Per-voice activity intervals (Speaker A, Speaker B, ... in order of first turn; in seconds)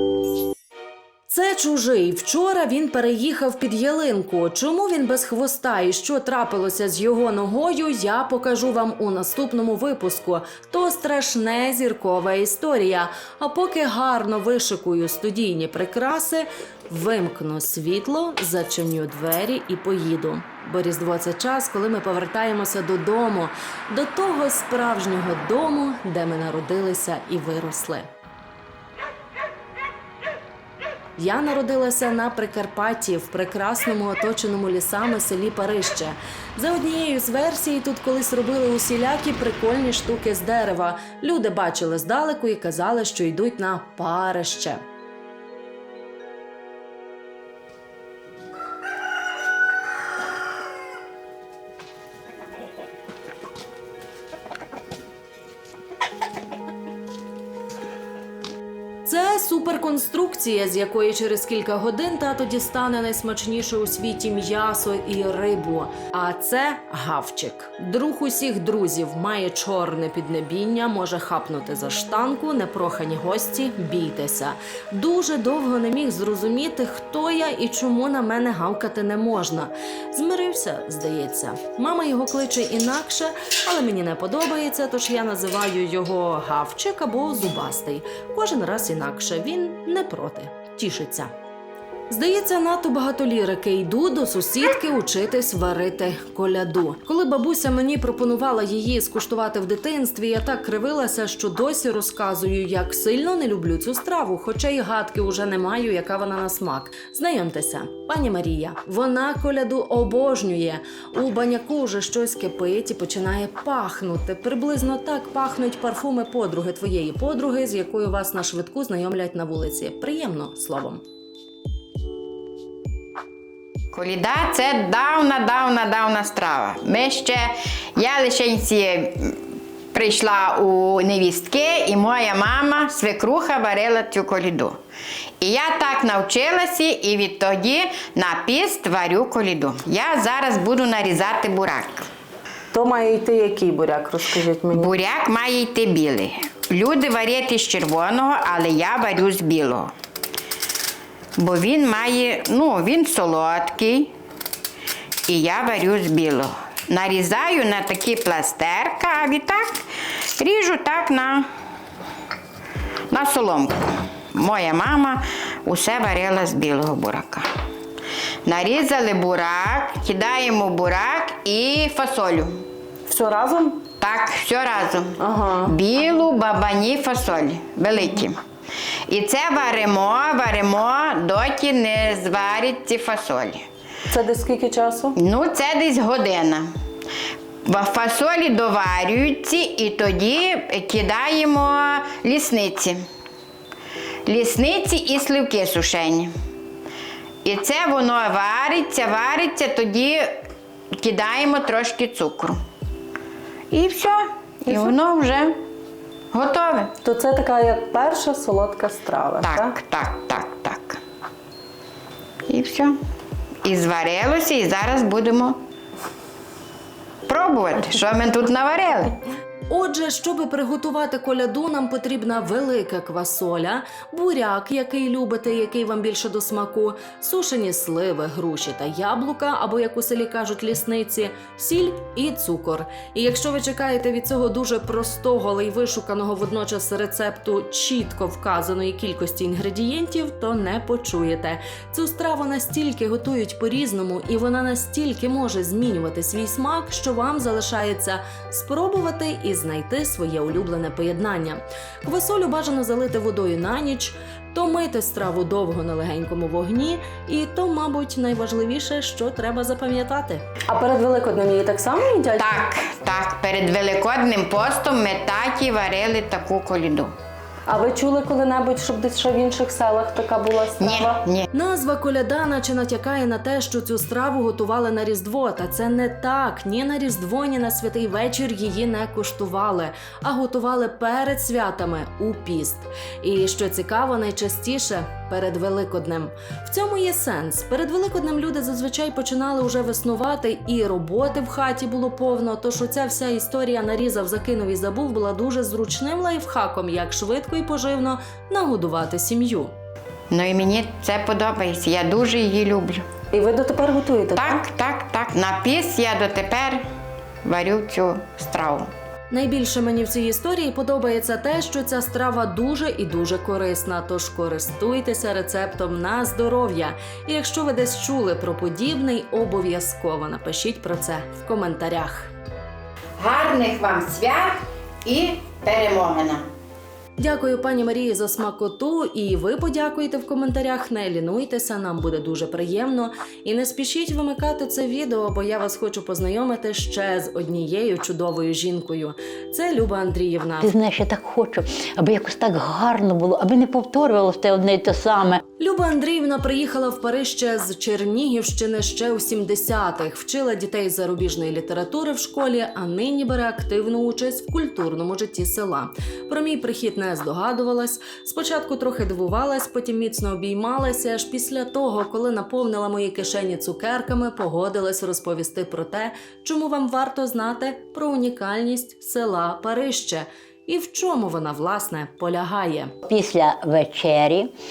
Speaker A: 1.3-28.1, 31.2-44.8, 59.0-91.3, 92.1-121.0, 219.7-260.4, 271.5-299.7, 309.3-322.3, 327.2-340.7, 345.6-372.9
Speaker B: 123.9-129.4, 129.9-134.8, 135.4-142.1, 144.7-149.9, 151.4-154.1, 155.3-159.8, 160.4-161.5, 163.1-167.5, 168.5-172.6, 174.0-178.4, 179.1-183.7, 185.2-186.7, 187.7-193.0, 194.3-196.3, 197.4-200.3, 201.0-202.6, 203.7-205.6, 206.3-206.9, 209.4-211.0, 212.5-213.0, 213.6-215.6, 217.3-219.1, 262.4-267.1, 270.8-271.5, 300.3-303.1, 304.4-306.8, 307.4-308.9, 323.2-326.5
Speaker C: 142.7-144.9, 173.1-173.9, 175.2-175.8, 184.1-185.2, 207.0-209.8, 260.7-262.6, 267.7-271.2, 303.3-304.6
Speaker D: 340.6-345.4, 373.1-374.5